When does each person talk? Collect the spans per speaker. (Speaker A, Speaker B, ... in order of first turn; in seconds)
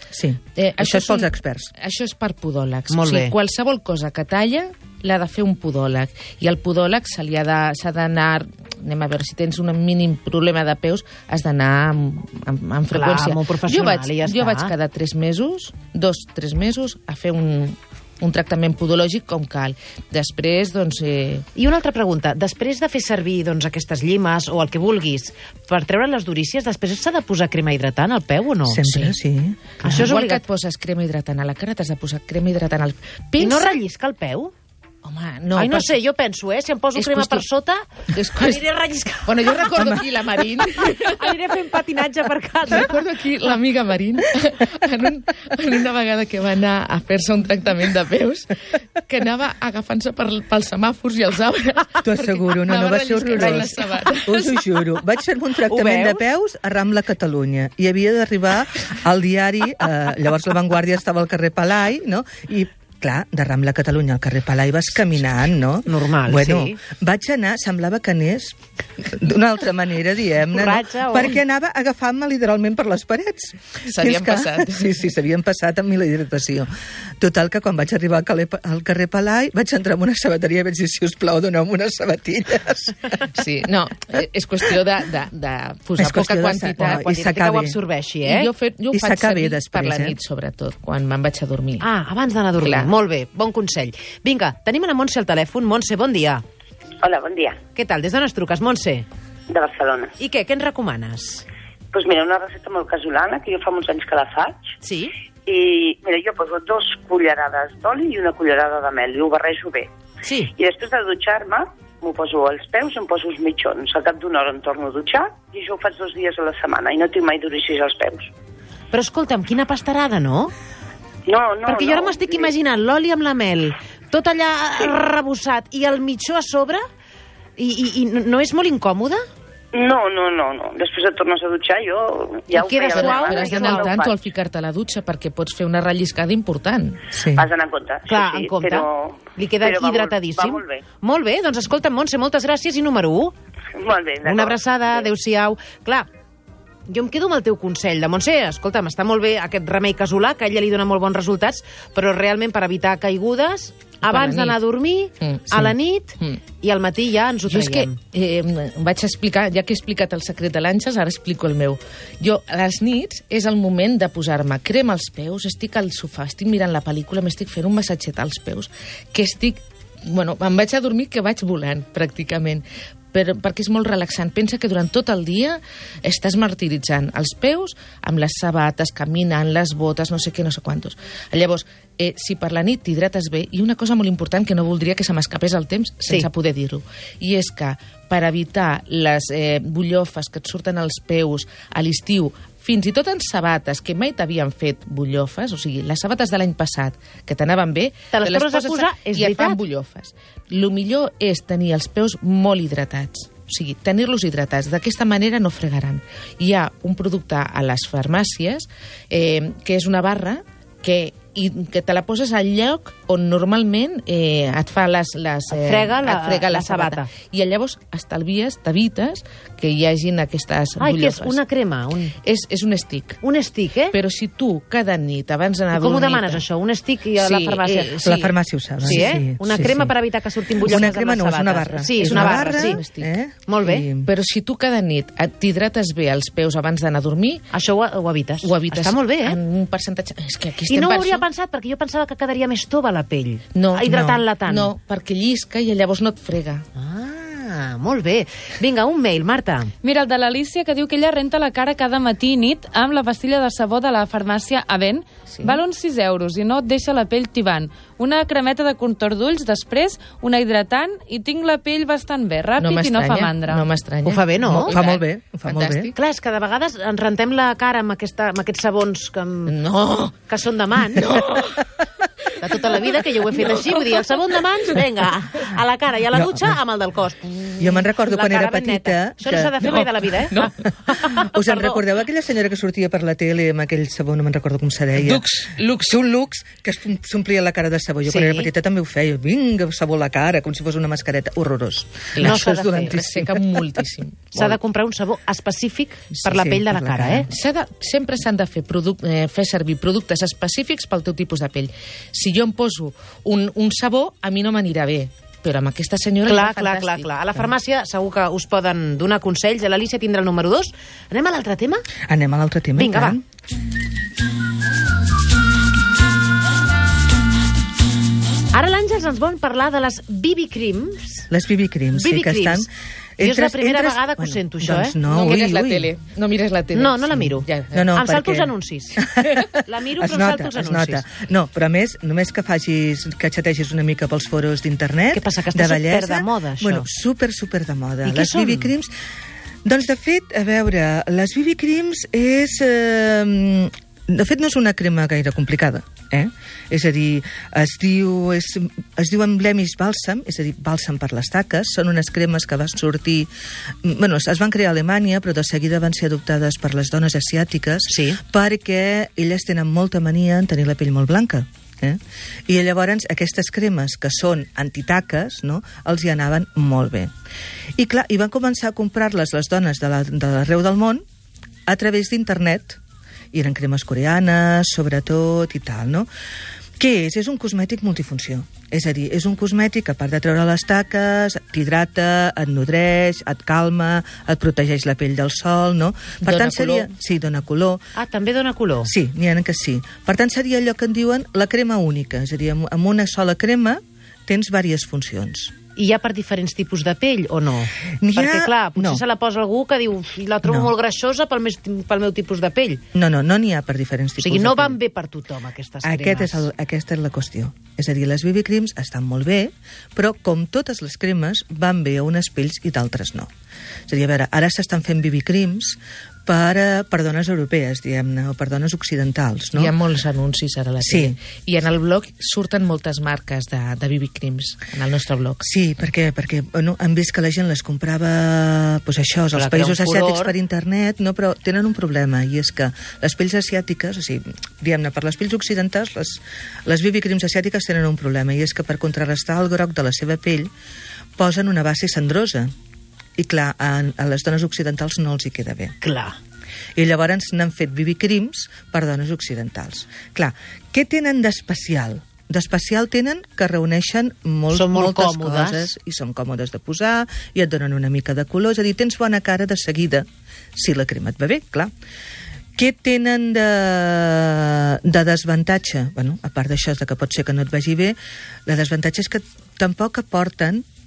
Speaker A: 0.1-1.7, 28.7-29.8, 52.0-83.0, 86.0-87.8, 88.9-90.2, 137.1-137.5, 228.0-229.8, 230.7-234.1, 264.5-265.9, 276.1-276.5, 277.6-279.8, 281.1-285.3, 285.8-293.7, 296.2-297.3, 312.1-313.2, 321.3-325.9, 327.7-338.9, 339.6-353.3, 353.8-367.1, 367.8-371.0, 371.7-372.8, 373.3-376.1, 376.8-387.8, 388.9-395.5, 398.0-399.0, 400.4-400.7, 402.9-404.8, 405.8-413.3, 413.9-419.8, 420.8-421.2, 425.4-440.5, 441.2-442.5, 443.2-445.7, 446.8-460.1, 460.6-461.7, 462.6-470.6
Speaker B: 0.5-21.4, 29.8-33.8, 35.0-36.0, 37.0-37.5, 38.1-38.6, 39.2-41.3, 42.7-48.5, 49.0-54.8, 73.9-75.0, 83.3-87.1, 88.2-91.9, 92.6-92.9, 132.8-137.0, 154.0-154.6, 155.2-156.4, 157.5-221.4, 222.2-223.2, 223.9-226.4, 227.2-229.9, 232.0-233.1, 234.0-237.5, 238.4-241.3, 243.5-246.7, 255.3-255.6, 262.6-266.0, 269.5-270.2, 270.9-271.7, 272.5-274.0, 279.6-280.5, 285.0-286.0, 292.2-294.5, 297.3-307.4, 325.0-328.0, 386.2-386.9, 419.5-425.4
Speaker C: 2.9-3.3, 12.9-14.7, 21.6-29.1, 29.8-30.4, 33.4-34.5, 35.6-37.8, 38.4-40.0, 40.7-43.0, 55.6-56.2, 65.9-66.8, 70.5-71.4, 86.8-88.5, 91.8-96.4, 97.8-99.1, 100.2-101.5, 104.8-105.1, 110.2-110.5, 118.9-120.5, 121.7-126.8, 127.6-129.2, 132.6-133.8, 138.1-143.3, 144.2-146.1, 146.9-158.0, 198.1-199.6, 215.5-217.1, 220.8-222.1, 223.2-223.9, 225.7-228.0, 228.8-232.8, 233.5-233.9, 237.5-239.4, 240.7-244.7, 246.8-249.7, 264.1-264.8, 265.9-269.5, 270.3-271.2, 272.4-281.8, 288.1-288.5, 292.2-293.0, 294.3-297.3, 306.2-311.8, 312.8-313.2, 318.5-321.3, 321.9-322.7, 323.2-325.4, 326.7-329.0, 329.6-331.0, 335.1-336.9, 338.0-338.7, 357.9-358.2, 387.9-388.9, 395.8-402.8, 404.2-406.5, 429.3-430.4, 445.8-446.2, 454.5-455.7
Speaker D: 97.0-97.6, 99.5-100.1, 101.9-104.6, 105.5-109.9, 110.5-118.3, 121.3-122.5, 129.7-134.1, 137.3-140.8, 143.7-145.1
Speaker E: 249.8-263.7